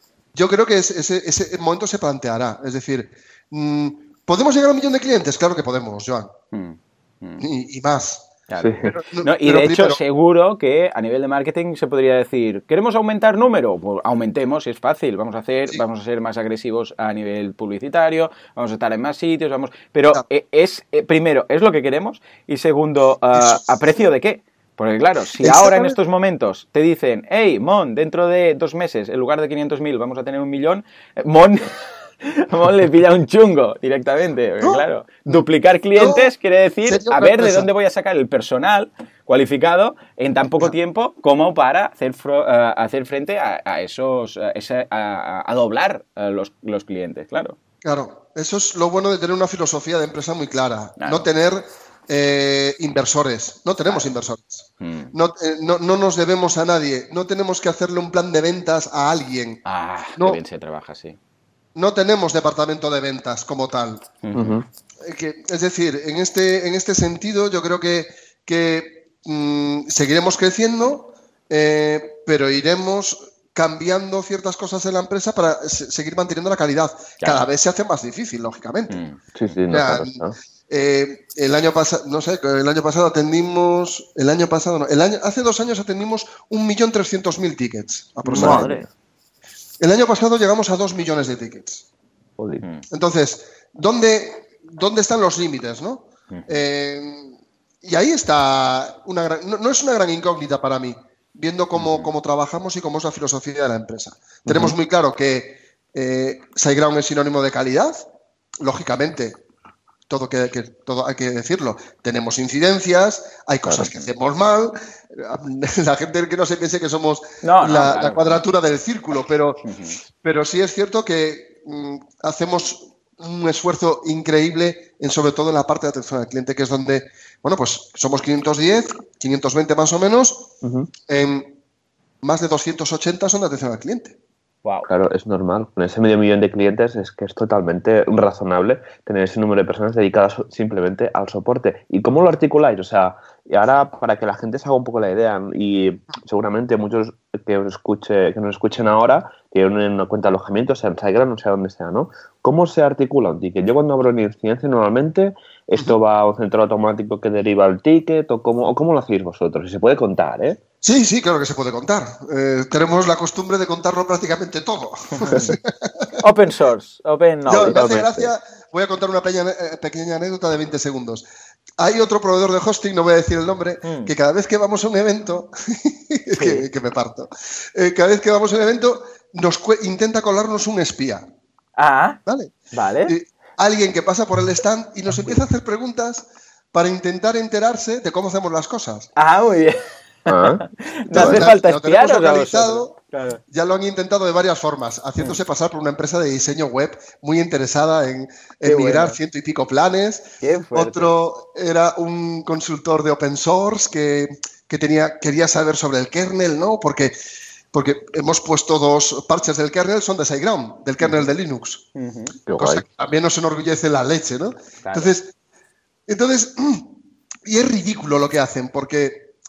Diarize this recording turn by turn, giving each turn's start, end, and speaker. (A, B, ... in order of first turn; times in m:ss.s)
0:00.3-0:06.3 A
0:06.5-0:07.4 B
0:07.4-0:08.2 A
0:08.5-0:47.6 B
0:08.6-0:08.9 C
0:08.8-0:10.0 A
0:23.4-0:23.6 A
0:25.4-0:26.0 A
0:36.0-0:36.3 A
0:36.8-0:37.7 A
0:47.8-0:59.6 A
0:51.0-0:51.3 B
0:53.8-0:54.1 B
0:54.8-0:55.1 B
0:59.6-1:01.2 B
1:01.7-1:04.0 A
1:04.2-1:04.6 B
1:04.3-1:04.6 C
1:05.0-1:19.0 A
1:18.9-1:19.6 B
1:19.3-1:20.4 C
1:19.7-1:28.7 A
1:28.2-1:28.8 B
1:28.3-1:28.9 C
1:29.8-1:31.8 A
1:32.4-1:32.6 C
1:32.9-1:48.0 A
1:36.3-1:36.6 B
1:41.7-1:42.1 B
1:44.4-1:44.7 C
1:48.6-1:49.4 A
1:50.1-1:59.6 A
1:53.8-1:54.1 B
1:57.4-1:58.4 B
1:59.6-2:00.0 B
2:00.2-2:10.5 A
2:10.6-2:10.9 C
2:11.1-2:11.6 A
2:12.2-2:14.2 A
2:14.6-2:14.9 B
2:14.9-2:40.6 C
2:40.8-2:46.1 A
2:45.1-2:45.6 B
2:46.2-2:48.3 B
2:47.5-2:51.2 A
2:47.7-2:48.1 C
2:51.8-3:01.2 A
2:53.8-2:54.1 B
2:56.4-2:56.6 B
3:01.8-3:02.2 B
3:02.2-3:02.5 A
3:02.7-3:03.1 B
3:03.0-3:09.1 A
3:09.2-3:13.4 B
3:10.3-3:10.6 C
3:11.1-3:13.0 A
3:11.2-3:11.4 C
3:13.5-3:27.1 A
3:18.6-3:19.2 B
3:20.4-3:21.1 B
3:27.7-3:31.8 A
3:32.0-3:32.4 B
3:32.5-3:32.8 C
3:32.6-3:35.3 A
3:34.8-3:35.1 B
3:36.1-3:36.9 A
3:37.4-3:39.3 A